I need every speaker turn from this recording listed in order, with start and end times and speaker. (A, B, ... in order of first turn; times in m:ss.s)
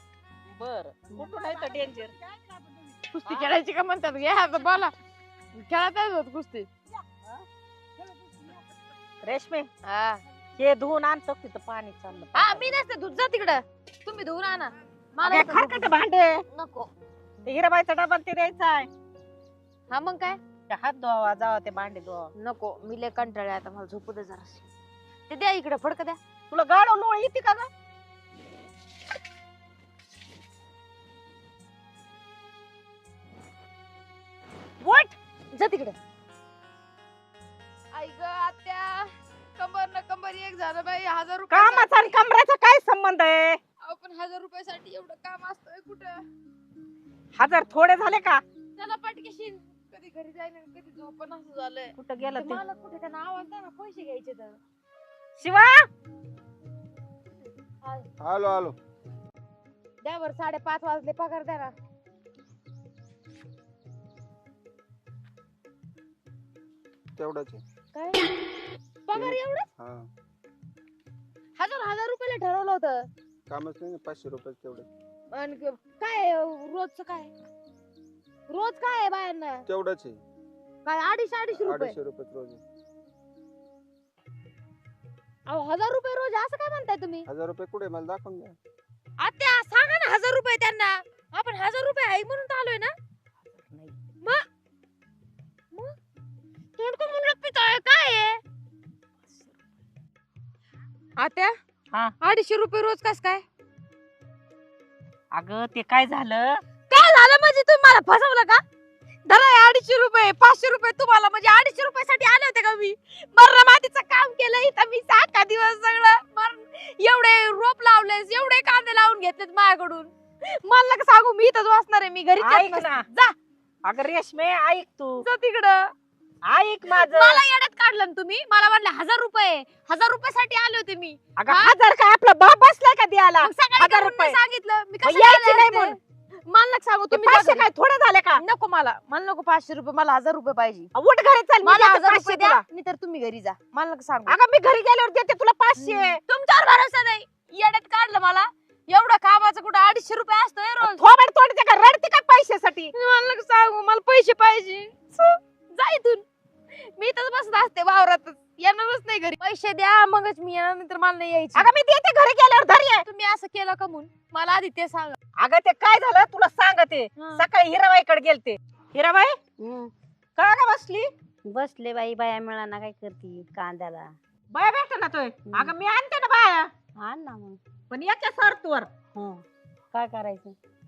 0:00.5-0:02.1 A
0:01.1-0:03.0 B
0:03.1-0:04.9 C
0:05.5-0:06.7 C
0:06.9-0:07.4 B
0:08.0-0:08.7 B
0:09.2-0:09.7 A
0:09.8-0:10.2 C
0:10.6-0:12.7 A
0:12.4-0:15.9 C
0:15.3-0:16.4 A
0:16.5-0:16.9 C
0:17.4-0:18.9 A
0:19.9-0:20.4 C
0:20.7-0:22.3 A
0:22.4-0:24.6 C
0:25.3-0:26.2 C
0:26.5-0:27.7 A
0:34.8-0:35.2 A
0:35.5-0:36.0 C
0:37.9-0:42.1 C
0:41.5-0:43.6 A
0:43.8-0:46.2 C
0:47.4-0:48.4 A
0:48.8-0:54.6 C
0:52.0-0:52.6 A
0:55.4-0:55.8 A
0:58.2-0:58.8 D
1:00.0-1:01.7 C
1:07.2-1:07.6 D
1:07.9-1:08.2 C
1:09.1-1:09.7 C
1:09.1-1:10.1 D
1:11.6-1:13.1 C
1:13.5-1:14.9 D
1:15.3-1:17.3 C
1:18.5-1:19.6 C
1:19.7-1:20.2 D
1:20.8-1:22.0 C
1:21.6-1:22.6 D
1:25.5-1:27.3 C
1:27.3-1:28.6 D
1:29.2-1:32.9 C
1:33.5-1:33.9 A
1:36.8-1:38.4 C
1:41.2-1:41.6 C
1:42.2-1:43.4 C
1:45.3-1:46.6 A
1:46.9-1:48.6 C
1:49.3-2:03.4 C
2:02.4-2:03.1 A
2:03.8-2:05.2 A
2:05.2-2:05.9 C
2:06.5-2:07.4 A
2:06.9-2:11.8 C
2:11.4-2:14.4 A
2:13.4-2:17.7 C
2:15.0-2:16.0 A
2:17.1-2:18.4 A
2:18.4-2:20.9 C
2:21.0-2:22.6 A
2:21.6-2:24.4 C
2:24.3-2:26.2 A
2:25.8-2:31.0 C
2:30.8-2:32.9 A
2:33.0-2:41.7 C
2:41.6-2:43.0 A
2:43.0-2:45.2 C
2:45.4-2:49.4 A
2:47.2-2:47.5 C
2:49.6-2:49.9 B
2:50.4-2:51.1 A
2:51.4-2:54.2 B
2:54.5-2:56.7 A
2:55.5-2:55.8 B
2:57.0-2:57.6 B
2:57.9-2:58.9 A
2:59.1-3:00.6 B